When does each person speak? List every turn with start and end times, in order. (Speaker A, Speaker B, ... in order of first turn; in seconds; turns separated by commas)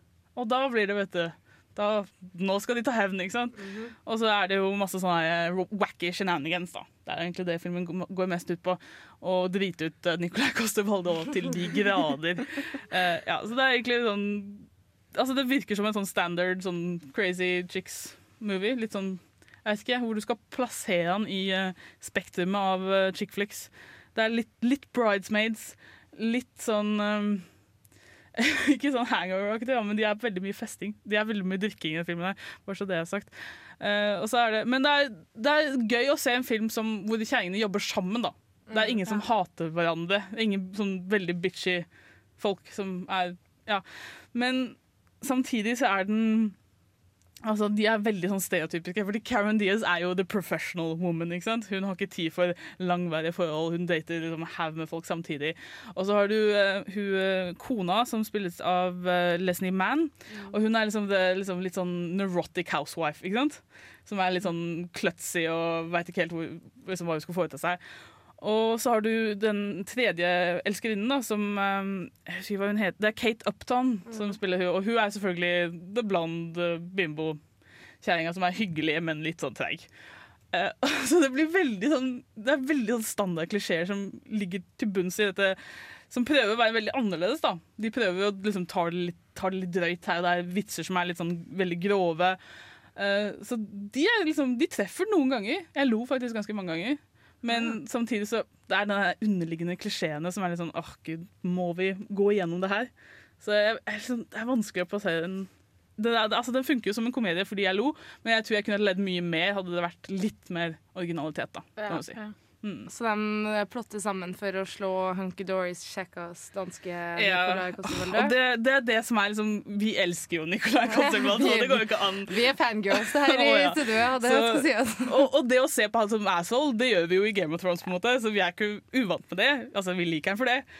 Speaker A: 0.3-27.5, Speaker B: 3.6-3.9, Speaker A: 28.4-41.9, Speaker B: 38.7-39.2, Speaker A: 42.4-46.5, Speaker A: 47.4-67.8, Speaker A: 68.4-77.4, Speaker B: 74.1-74.4, Speaker A: 78.0-79.9, Speaker A: 80.5-85.6, Speaker A: 86.1-92.4, Speaker A: 93.0-102.9, Speaker B: 97.5-97.8, Speaker A: 103.4-112.9, Speaker B: 111.8-112.2, Speaker B: 112.9-118.3, Speaker A: 117.2-122.4, Speaker B: 120.9-125.2, Speaker A: 122.9-130.7